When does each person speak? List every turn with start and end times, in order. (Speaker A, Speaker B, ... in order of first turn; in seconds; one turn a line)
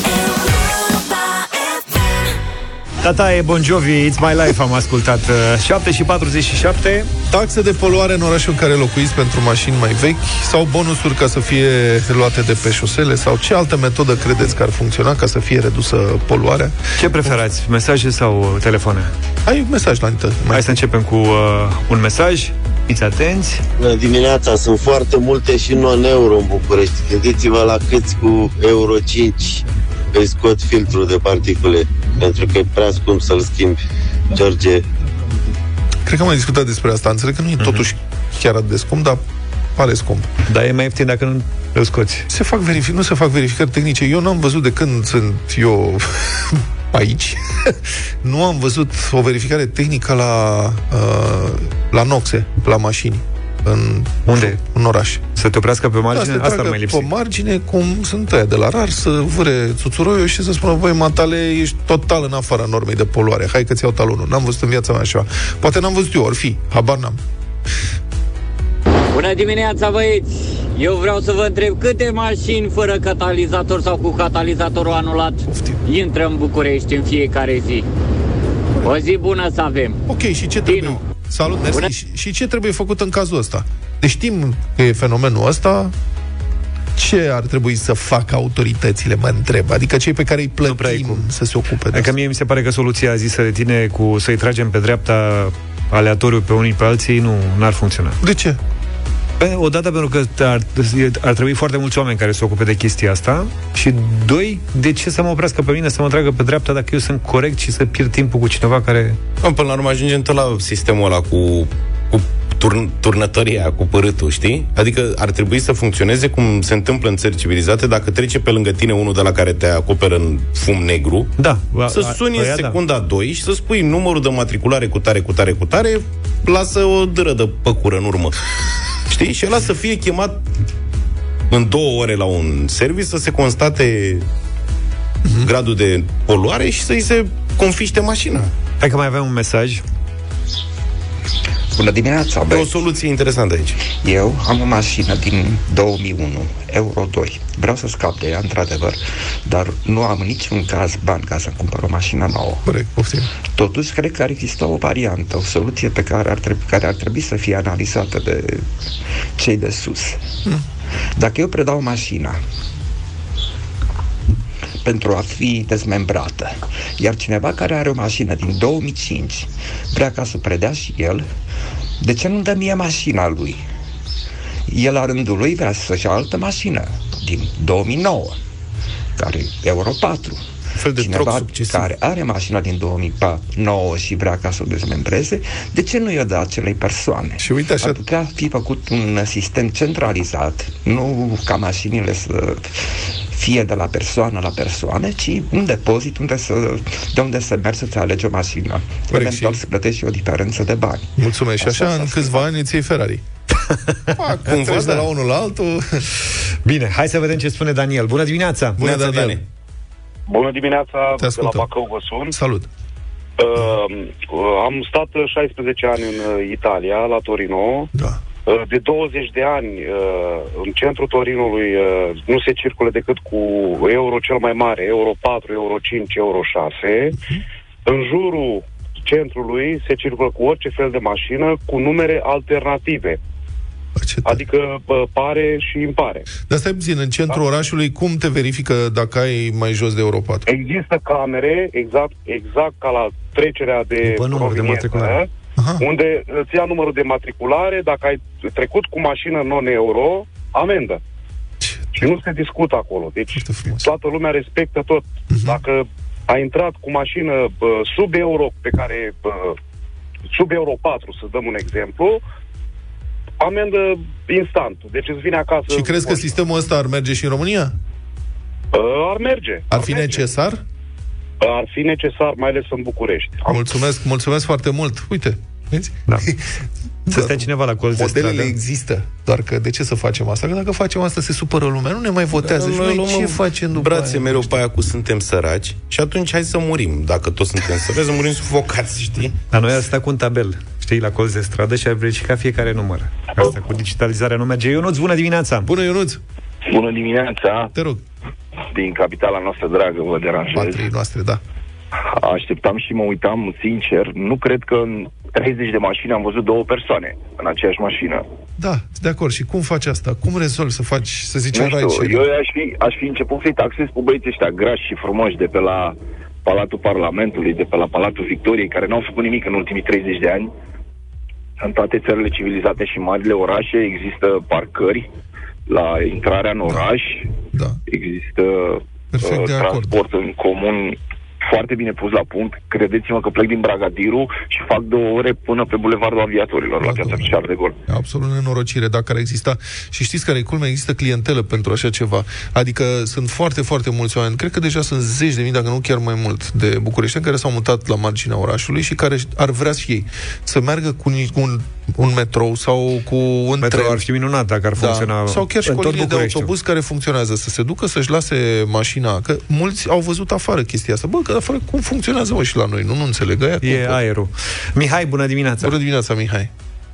Speaker A: 3.0-7.1
Speaker B: 7.3-16.7
Speaker A: 17.0-19.1
Speaker B: 19.5-20.8
Speaker A: 20.5-23.6
Speaker C: 23.8-33.8
Speaker C: 34.3-34.8
Speaker B: 36.0-39.2
Speaker A: 37.6-37.9
Speaker B: 39.8-40.3
Speaker A: 40.5-42.3
Speaker B: 42.3-55.2
Speaker A: 54.3-54.6
Speaker A: 55.4-57.1
Speaker B: 56.1-67.2
Speaker D: 69.1-77.8
Speaker B: 75.5-75.8
Speaker D: 78.8-80.0
Speaker B: 80.1-85.9
Speaker D: 80.7-81.0
Speaker B: 87.0-92.1
Speaker A: 90.6-91.3
Speaker A: 91.9-98.2
Speaker B: 98.2-98.6
Speaker A: 99.4-109.2
Speaker E: 109.4-121.3
Speaker A: 121.4-122.8
Speaker E: 121.9-128.3
Speaker E: 129.1-130.4
Speaker E: 131.5-134.3
Speaker E: 135.4-138.5
Speaker A: 138.8-139.8
Speaker F: 141.7-142.8
Speaker E: 142.5-143.8
Speaker F: 143.9-152.6
Speaker B: 152.7-153.3
Speaker F: 153.6-158.7
Speaker F: 159.4-160.2
Speaker F: 161.2-162.4
Speaker F: 164.8-171.3
Speaker F: 172.0-173.6
Speaker F: 174.7-178.4
Speaker F: 179.2-180.4
Speaker E: 181.0-181.8
Speaker F: 181.0-202.4
Speaker A: 181.0-181.7
Speaker B: 187.4-188.0
Speaker B: 199.1-199.6
Speaker B: 201.2-203.2
Speaker B: 204.2-206.0
Speaker E: 204.5-205.1
Speaker A: 206.7-208.8
Speaker B: 208.8-209.4
Speaker E: 208.8-209.4
Speaker G: 210.3-212.3
Speaker B: 211.2-211.7
Speaker B: 212.3-212.7
Speaker G: 213.4-217.9
Speaker B: 217.9-218.2
Speaker G: 218.5-227.2
Speaker G: 227.9-233.2
Speaker B: 234.0-234.4
Speaker G: 234.2-236.3
Speaker B: 236.5-240.4
Speaker G: 240.5-245.3
Speaker A: 244.0-245.2
Speaker B: 245.6-245.8
Speaker G: 245.8-251.0
Speaker B: 251.6-252.1
Speaker G: 251.9-259.6
Speaker B: 253.4-253.9
Speaker B: 255.3-255.6
Speaker G: 260.3-262.2
Speaker G: 263.4-266.4
Speaker B: 265.7-267.7
Speaker G: 268.7-270.1
Speaker B: 269.7-270.6
Speaker G: 271.4-273.7
Speaker B: 273.5-276.5
Speaker B: 277.1-284.6
Speaker A: 277.1-278.6
Speaker E: 282.4-289.3
Speaker A: 289.5-295.7
Speaker B: 295.7-296.2
Speaker H: 296.7-297.7
Speaker B: 297.7-298.0
Speaker H: 298.7-300.8
Speaker B: 300.5-301.4
Speaker H: 302.1-308.2
Speaker B: 308.6-312.2
Speaker H: 311.5-320.5
Speaker H: 321.6-325.1
Speaker H: 325.7-327.3
Speaker B: 327.5-327.8
Speaker H: 327.9-337.8
Speaker B: 329.1-330.0
Speaker B: 336.8-337.3
Speaker B: 337.9-354.0
Speaker A: 353.6-356.5
Speaker B: 354.8-364.0
Speaker A: 363.6-365.7
Speaker B: 365.6-366.5